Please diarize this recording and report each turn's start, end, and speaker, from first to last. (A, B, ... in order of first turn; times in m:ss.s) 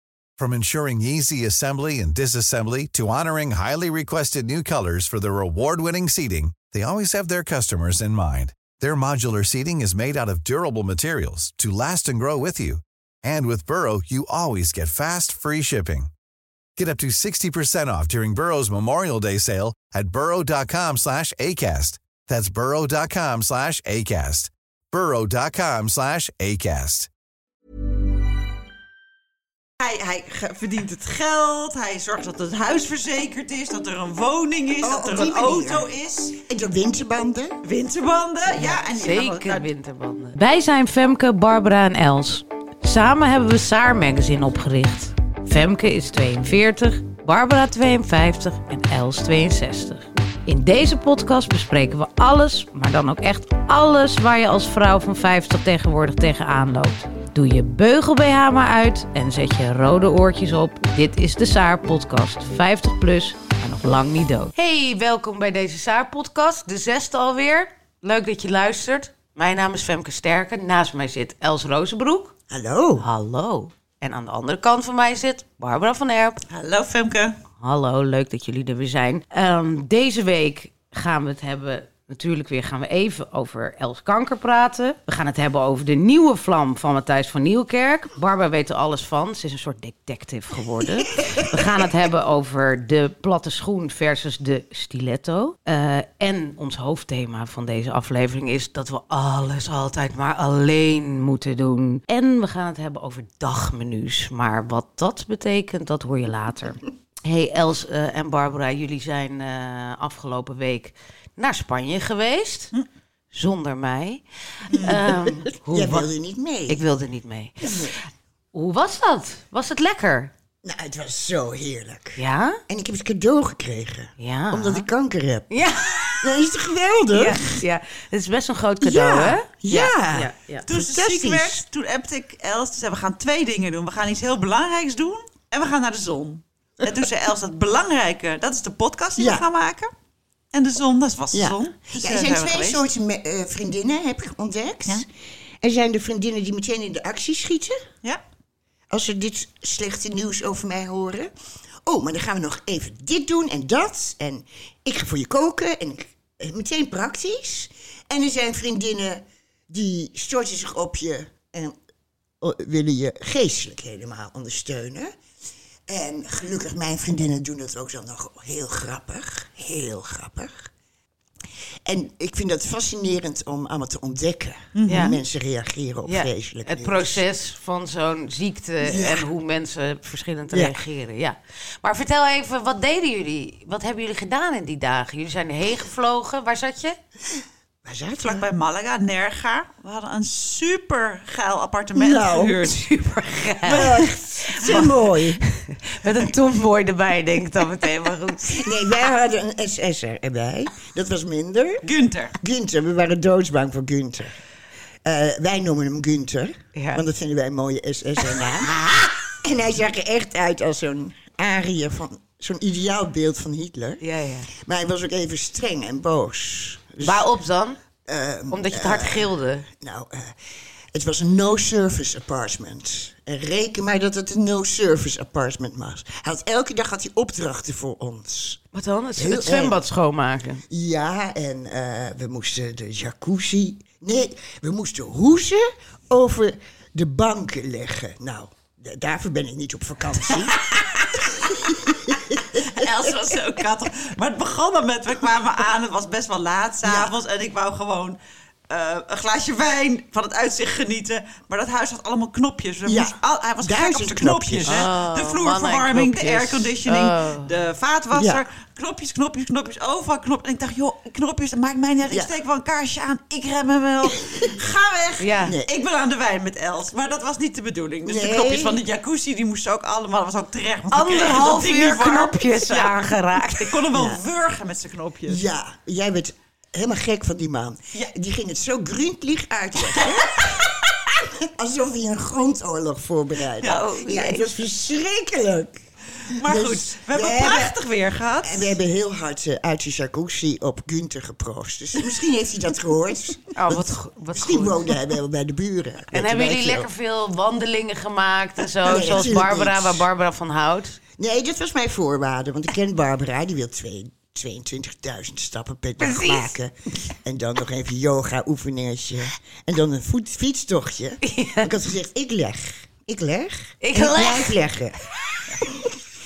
0:00.4-0:16.1 A
0:16.8-0:27.1 A
0:29.8-0:36.4 B
0:34.8-0:37.6 C
0:37.6-0:39.7 B
0:38.6-1:12.3 D
1:12.5-1:13.1 C
1:13.0-1:16.4 D
1:16.5-1:17.4 B
1:17.6-1:52.7 D
1:53.3-1:56.1 D
1:54.7-1:55.0 B
1:54.8-1:56.8 C
1:56.7-1:58.0 D
1:57.6-1:58.0 C
1:58.5-2:00.3 D
2:00.6-2:05.5 C
2:02.2-2:02.6 D
2:04.2-2:04.9 D
2:05.5-2:06.4 D
2:06.2-2:07.6 C
2:07.1-2:10.7 D
2:08.8-2:11.6 C
2:10.7-2:19.9 B
2:19.2-2:19.5 C
2:20.5-2:22.8 B
2:21.3-2:25.1 C
2:25.6-2:27.8 C
2:28.9-2:31.3 C
2:31.8-2:41.8 C
2:42.4-2:45.1 C
2:45.9-2:50.7 C
2:51.8-2:57.2 C
2:54.8-2:55.1 B
2:54.9-2:55.2 D
2:56.0-3:07.0 D
2:58.8-2:59.3 C
3:00.5-3:00.8 C
3:07.8-3:08.5 C
3:08.2-3:12.9 B
3:12.0-3:12.7 C
3:12.6-3:14.9 D
3:13.6-3:15.0 B
3:13.7-3:15.4 C
3:15.4-3:18.7 D
3:18.5-3:21.8 C
3:21.8-3:22.4 B
3:22.4-3:24.4 C
3:25.0-3:28.8 C
3:26.8-3:27.0 D
3:28.6-3:29.1 D
3:29.4-3:37.3 C
3:34.0-3:34.5 D
3:37.0-3:37.8 D
3:38.1-3:40.4 C
3:38.5-3:39.7 D
3:40.9-3:48.6 C
3:48.7-3:50.6 D
3:49.2-3:49.8 C
3:50.7-4:03.4 C
4:02.6-4:08.2 B
4:06.8-4:07.2 C
4:08.7-4:35.4 B
4:12.9-4:14.9 C
4:14.7-4:17.5 D
4:18.1-4:18.4 C
4:24.0-4:24.5 C
4:25.2-4:25.6 D
4:28.1-4:28.8 C
4:30.9-4:33.8 D
4:33.9-4:34.2 C
4:35.3-4:45.8 C
4:43.6-4:43.9 B
4:43.6-4:44.6 D
4:46.3-4:48.8 B
4:46.4-4:47.7 C
4:48.4-4:56.9 C
4:53.6-4:54.9 D
4:56.1-5:01.0 D
4:58.8-5:00.1 C
5:01.2-5:15.0 C
5:06.0-5:06.5 D
5:11.2-5:11.7 D
5:13.8-5:14.6 D
5:15.6-5:16.0 C